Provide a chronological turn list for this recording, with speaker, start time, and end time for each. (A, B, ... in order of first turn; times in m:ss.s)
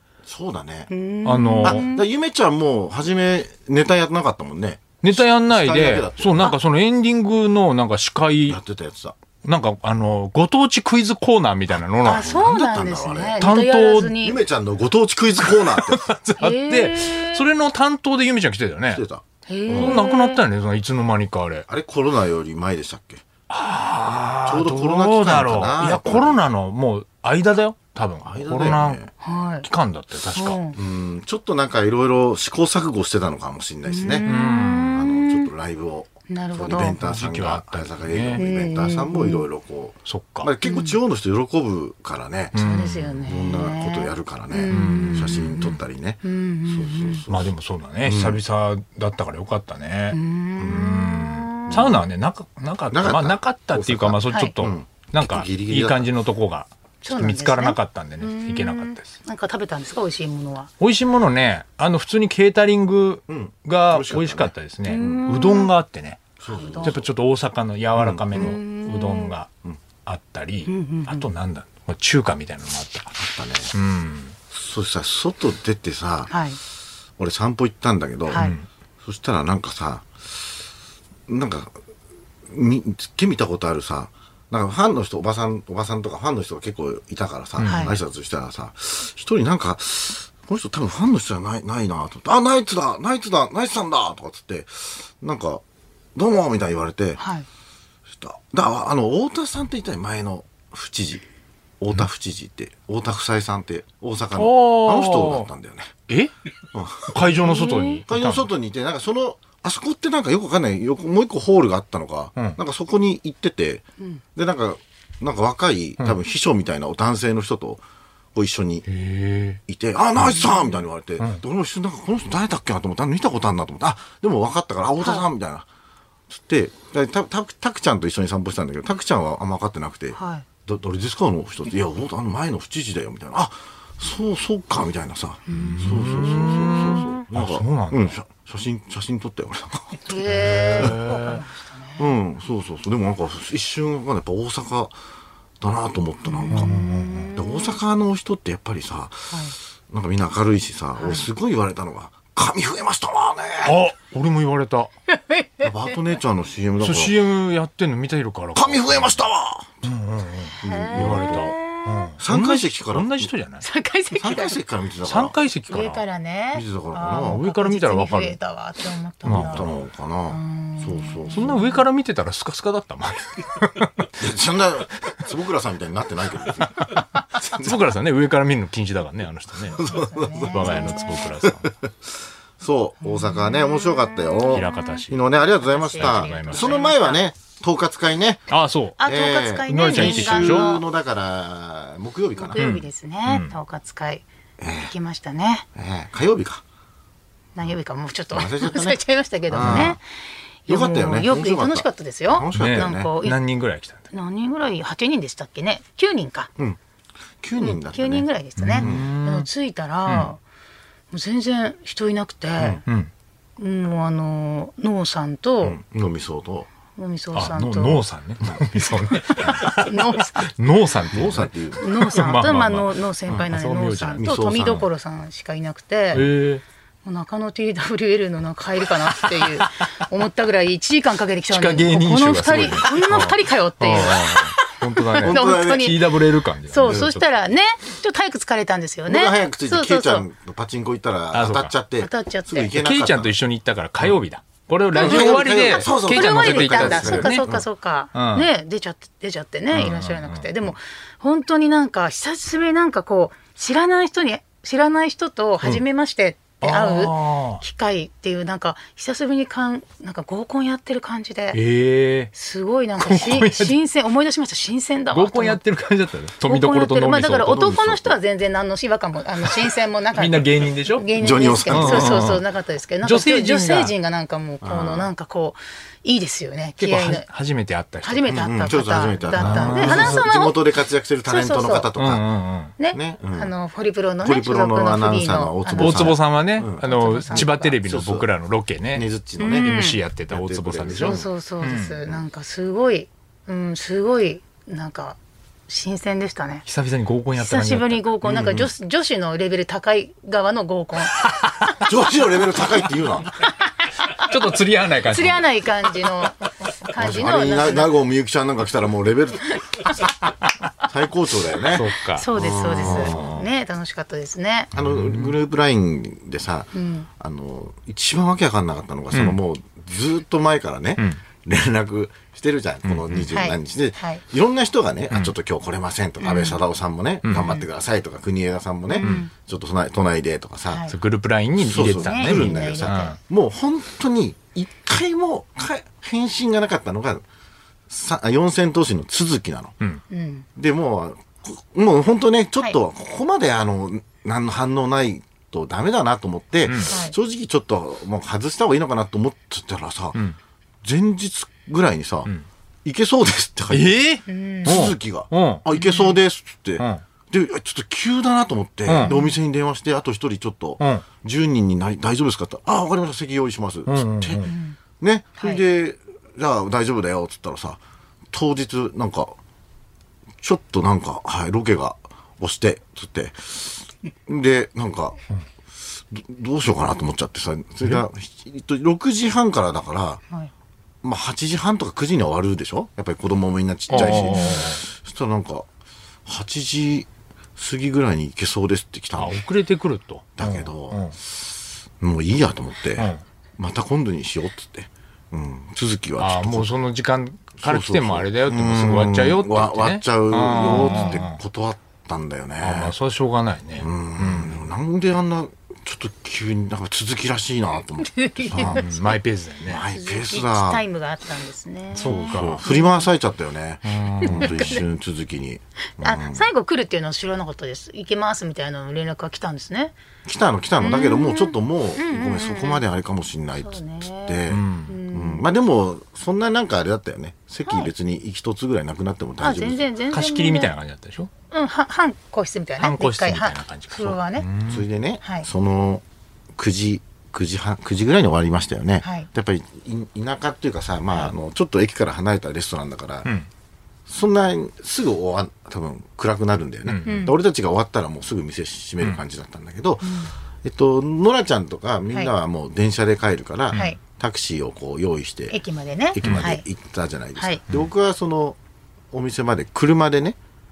0:00.2-0:00.9 A
0:00.9-0:02.0 B
0:01.2-0:01.8 C
0:01.6-0:06.6 A
0:05.0-0:08.6 C
0:08.5-0:09.2 A
0:09.4-0:12.4 C
0:12.0-0:13.4 A
0:12.0-0:14.4 B
0:13.4-0:14.2 C
0:14.2-0:16.2 A
0:15.7-0:19.0 C
0:16.4-0:17.4 B
0:18.9-0:20.0 A
0:19.5-0:20.4 B
0:19.7-0:21.6 C
0:21.7-0:23.2 A
0:23.5-0:29.1 C
0:24.4-0:26.4 A
0:28.2-0:29.1 A
0:29.2-0:29.6 B
0:29.6-0:30.6 C
0:30.3-0:30.8 B
0:30.7-0:34.3 A
0:33.8-0:35.5 B
0:34.2-0:35.0 C
0:34.9-0:42.5 A
0:36.3-0:37.0 B
0:36.7-0:38.4 C
0:38.4-0:39.4 B
0:40.1-0:40.5 C
0:40.6-0:41.0 B
0:42.5-0:43.2 C
0:42.5-0:45.7 B
0:43.2-0:47.5 A
0:44.7-0:45.6 C
0:46.2-0:47.2 B
0:47.3-0:59.1 C
0:48.0-0:48.4 A
0:50.1-0:51.9 B
0:51.7-0:52.0 A
0:52.9-0:56.1 A
0:54.3-0:54.6 B
0:57.0-1:00.7 B
1:00.8-1:06.3 C
1:03.3-1:05.3 A
1:04.9-1:05.7 B
1:06.4-1:07.1 A
1:06.5-1:07.0 B
1:06.8-1:09.5 C
1:08.0-1:08.5 A
1:08.3-1:09.3 B
1:10.0-1:13.2 C
1:10.7-1:11.3 B
1:13.2-1:13.7 A
1:13.7-1:14.4 C
1:14.5-1:16.3 A
1:16.3-1:16.6 B
1:17.2-1:18.5 A
1:18.3-1:18.5 B
1:18.3-1:18.6 C
1:19.0-1:20.1 A
1:21.3-1:21.8 A
1:22.5-1:35.6 A
1:27.6-1:27.9 C
1:27.6-1:27.9 B
1:36.1-1:37.2 A
1:37.2-1:37.5 B
1:38.2-1:41.2 A
1:41.8-1:45.9 A
1:44.4-1:45.5 C
1:46.7-1:47.2 A
1:47.1-1:48.5 C
1:47.4-1:48.0 B
1:48.0-1:53.8 A
1:54.3-1:57.8 A
1:58.3-1:58.8 A
1:58.9-1:59.6 C
1:59.7-2:05.6 A
2:00.4-2:00.8 B
2:06.3-2:20.1 A
2:10.1-2:10.4 B
2:15.5-2:15.9 B
2:15.5-2:18.1 C
2:20.0-2:22.1 B
2:20.3-2:21.4 C
2:22.0-2:24.9 A
2:25.6-2:26.7 A
2:26.2-2:27.8 B
2:26.5-2:27.3 C
2:27.3-2:33.8 A
2:31.0-2:31.2 B
2:33.6-2:34.9 C
2:35.1-2:35.7 B
2:35.6-2:37.2 A
2:36.8-2:39.2 C
2:38.5-2:39.9 A
2:39.8-2:43.6 C
2:40.6-2:41.6 A
2:40.6-2:42.1 B
2:42.2-2:43.3 A
2:43.6-2:44.6 B
2:44.1-2:45.4 A
2:45.0-2:46.0 C
2:45.7-2:49.6 B
2:46.5-2:47.4 A
2:47.2-2:48.4 C
2:49.2-2:49.7 C
2:49.3-2:51.6 A
2:50.3-2:51.8 B
2:51.3-2:54.1 C
2:54.2-2:56.9 A
2:56.8-2:59.8 C
2:57.5-2:57.8 A
2:59.6-3:08.5 A
2:59.8-3:01.3 B
3:00.5-3:01.7 C
3:03.0-3:05.0 B
3:04.5-3:05.2 C
3:05.6-3:07.2 B
3:06.0-3:06.9 C
3:08.5-3:09.0 C
3:09.0-3:10.8 B
3:09.0-3:12.6 A
3:09.7-3:10.7 C
3:12.4-3:14.2 B
3:12.6-3:13.5 C
3:14.6-3:14.9 A
3:14.8-3:15.6 B
3:15.7-3:16.6 A
3:17.5-3:20.0 B
3:18.3-3:19.0 A
3:19.5-3:20.0 A
3:19.6-3:19.9 C
3:20.7-3:23.1 A
3:20.7-3:23.4 B
3:22.5-3:24.0 C
3:24.1-3:26.5 B
3:27.4-3:28.3 A
3:27.6-3:30.4 B
3:28.6-3:29.5 C
3:28.8-3:29.1 A
3:30.0-3:30.3 C
3:31.1-3:32.8 B
3:32.8-3:33.1 C
3:33.6-3:35.8 B
3:35.6-3:36.7 A
3:37.0-3:38.0 B
3:37.3-3:44.2 C
3:39.2-3:40.4 B
3:41.1-3:41.8 A
3:41.8-3:46.3 B
3:44.2-3:44.9 A
3:46.1-3:46.6 C
3:47.0-3:54.5 B
3:51.5-3:57.2 C
3:55.1-4:00.2 B
3:55.2-3:55.9 A
3:59.1-4:03.3 A
4:01.3-4:01.7 C
4:02.0-4:02.7 B
4:02.7-4:07.4 C
4:04.9-4:07.6 A
4:04.9-4:21.6 B
4:08.1-4:08.5 C
4:09.7-4:10.5 C
4:16.6-4:17.6 C
4:21.5-4:22.3 C
4:22.3-4:25.6 B
4:23.0-4:23.7 C
4:25.1-4:28.0 C
4:26.4-4:37.2 B
4:30.1-4:31.1 C
4:31.2-4:32.4 A
4:31.7-4:32.4 C
4:33.0-4:33.9 C
4:34.6-4:35.1 A
4:36.8-4:38.6 C
4:38.0-4:40.6 B
4:38.3-4:42.2 A
4:39.4-4:40.2 C
4:41.2-4:41.9 B
4:42.0-4:42.7 C
4:42.8-4:46.2 B
4:42.9-4:43.5 A
4:44.2-4:48.3 A
4:45.8-4:52.0 C
4:46.8-4:47.8 B
4:48.9-4:49.8 A
4:49.4-4:50.0 B
4:50.3-4:51.3 A
4:50.9-4:55.2 B
4:55.7-4:56.6 B
4:56.6-4:58.1 C
4:57.4-5:01.2 B
4:58.2-4:58.7 A
5:01.8-5:03.3 A
5:04.2-5:05.4 C
5:05.1-5:07.9 B
5:07.0-5:09.6 A
5:10.8-5:13.3 A
5:11.6-5:13.5 C
5:12.1-5:14.7 B
5:14.7-5:30.9 A
5:14.8-5:15.3 C
5:16.7-5:17.1 B
5:22.8-5:23.3 C
5:23.3-5:24.2 B
5:26.2-5:26.6 B
5:27.2-5:27.6 C
5:28.9-5:29.3 B
5:30.9-5:33.2 C
5:31.6-5:37.2 A
5:31.9-5:33.2 B
5:37.9-5:39.7 A
5:40.1-5:40.4 B
5:40.6-5:50.2 A
5:46.6-5:46.9 C
5:46.9-5:47.1 B
5:50.8-5:52.3 A
5:52.8-5:54.1 A
5:53.7-5:55.6 C
5:54.2-5:54.7 B
5:54.6-6:07.8 A
5:55.7-5:56.2 B
5:58.8-5:59.1 C
5:59.0-5:59.3 B
6:00.8-6:01.0 C
6:03.9-6:04.5 C
6:04.4-6:04.8 B
6:08.3-6:09.4 A
6:10.4-6:15.2 A
6:16.0-6:20.2 A
6:21.0-6:25.7 A
6:23.9-6:24.7 B
6:23.9-6:24.8 C
6:26.2-6:29.4 A
6:29.2-6:31.1 C
6:30.4-6:31.4 A
6:32.0-6:36.7 A
6:33.0-6:33.2 C
6:36.2-6:41.4 C
6:37.6-6:42.9 A
6:40.6-6:41.2 B
6:42.6-6:44.6 C
6:43.8-6:48.8 A
6:48.0-6:49.1 B
6:48.5-6:49.8 C
6:49.6-6:50.8 A
6:49.9-6:53.1 B
6:51.9-6:52.6 C
6:52.0-6:56.5 A
6:53.8-6:54.8 C
6:54.2-6:54.8 B
6:56.0-6:59.9 B
7:00.2-7:09.9 A
7:00.8-7:02.8 B
7:03.6-7:05.4 B
7:04.5-7:04.9 C
7:09.4-7:10.7 B
7:10.1-7:11.3 C
7:11.5-7:14.5 B
7:12.8-7:14.9 C
7:14.6-7:23.3 A
7:19.0-7:19.3 B
7:24.1-7:35.6 A
7:26.8-7:27.2 C
7:27.0-7:27.3 B
7:30.0-7:30.3 B
7:35.5-7:36.6 B
7:36.1-7:38.6 A
7:36.2-7:36.5 C
7:39.1-7:40.4 A